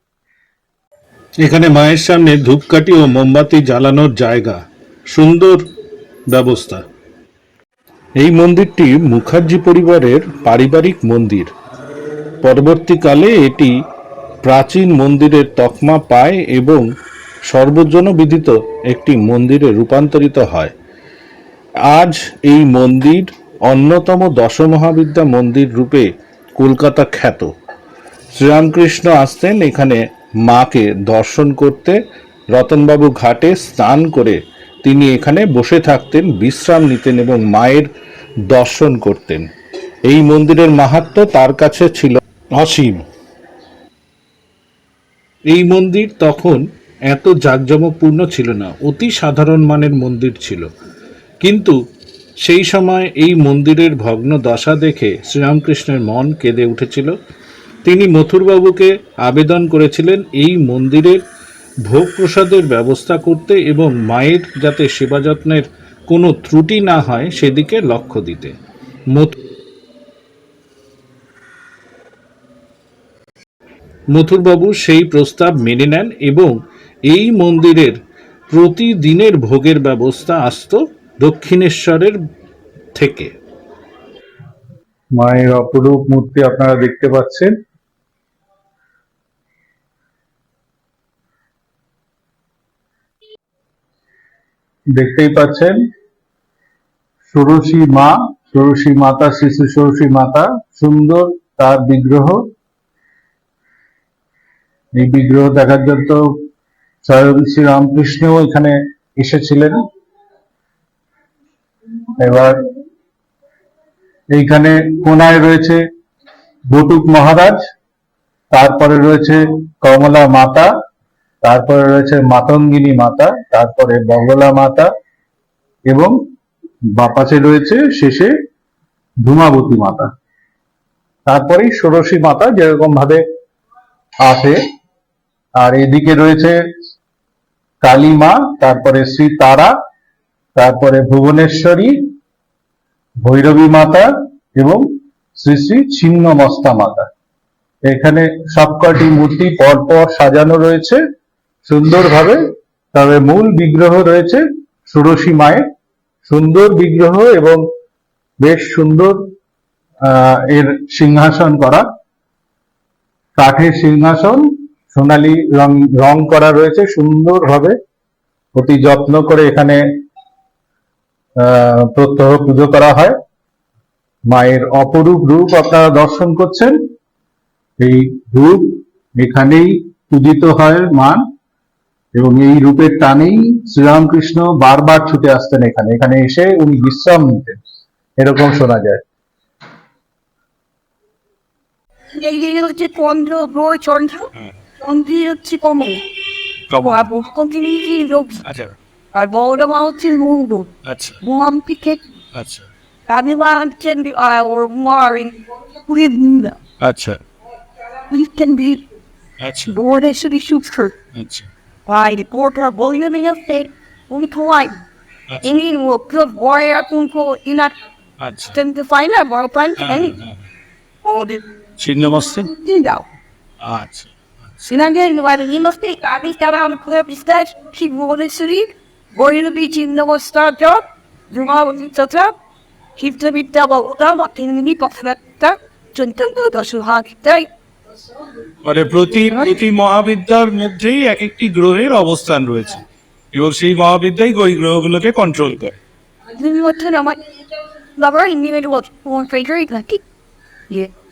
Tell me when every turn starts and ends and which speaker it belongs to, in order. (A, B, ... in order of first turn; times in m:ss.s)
0:01.4-0:05.6 A
0:06.3-0:06.8 A
0:08.2-0:11.5 A
0:12.4-0:13.8 A
0:14.4-0:16.9 A
0:17.5-0:20.7 A
0:21.9-0:27.5 A
0:28.4-0:32.0 A
0:32.5-0:37.9 A
0:38.5-0:39.5 A
0:40.1-0:43.0 A
0:45.5-0:50.7 A
0:51.4-0:51.8 A
0:52.4-0:57.1 A
0:57.9-1:01.2 A
1:01.9-1:08.6 A
1:14.1-1:16.6 A
1:17.1-1:18.0 A
1:18.5-1:22.2 A
1:23.0-1:23.3 A
1:25.2-1:27.5 B
1:35.0-1:35.8 B
1:37.2-1:42.4 B
1:45.0-1:46.3 B
1:47.0-1:49.8 B
1:52.2-1:52.6 B
1:54.3-1:55.8 B
1:56.7-1:57.6 B
1:58.5-2:00.7 B
2:01.4-2:04.9 B
2:05.9-2:06.2 B
2:06.9-2:08.3 B
2:09.2-2:10.1 B
2:11.3-2:13.2 B
2:14.2-2:14.6 B
2:15.6-2:16.6 B
2:17.8-2:19.7 B
2:20.6-2:22.0 B
2:23.2-2:24.8 B
2:25.4-2:27.1 B
2:27.9-2:31.0 B
2:31.7-2:32.4 B
2:32.9-2:35.6 B
2:36.3-2:37.6 B
2:38.4-2:39.3 B
2:40.0-2:41.8 B
2:43.4-2:47.8 B
2:48.6-2:49.8 B
2:51.4-2:53.1 B
2:54.3-2:56.8 B
2:57.8-3:01.2 B
3:02.1-3:07.6 B
3:08.2-3:09.0 B
3:12.1-3:16.0 C
3:16.7-3:18.4 C
3:16.7-3:17.0 D
3:18.5-3:18.7 D
3:19.1-3:22.2 C
3:22.4-3:22.6 D
3:23.1-3:26.6 C
3:26.8-3:27.2 A
3:27.5-3:29.0 C
3:29.4-3:29.7 A
3:29.6-3:31.0 C
3:31.9-3:34.8 C
3:35.4-3:37.9 C
3:38.4-3:40.2 C
3:39.8-3:40.3 D
3:41.0-3:43.1 C
3:41.8-3:42.5 D
3:43.6-3:43.9 A
3:43.7-3:44.0 D
3:44.7-3:52.4 C
3:53.0-3:59.6 C
3:58.7-4:02.7 D
3:58.9-4:01.4 A
4:02.0-4:02.2 A
4:03.3-4:05.7 D
4:05.1-4:05.6 A
4:06.2-4:10.0 C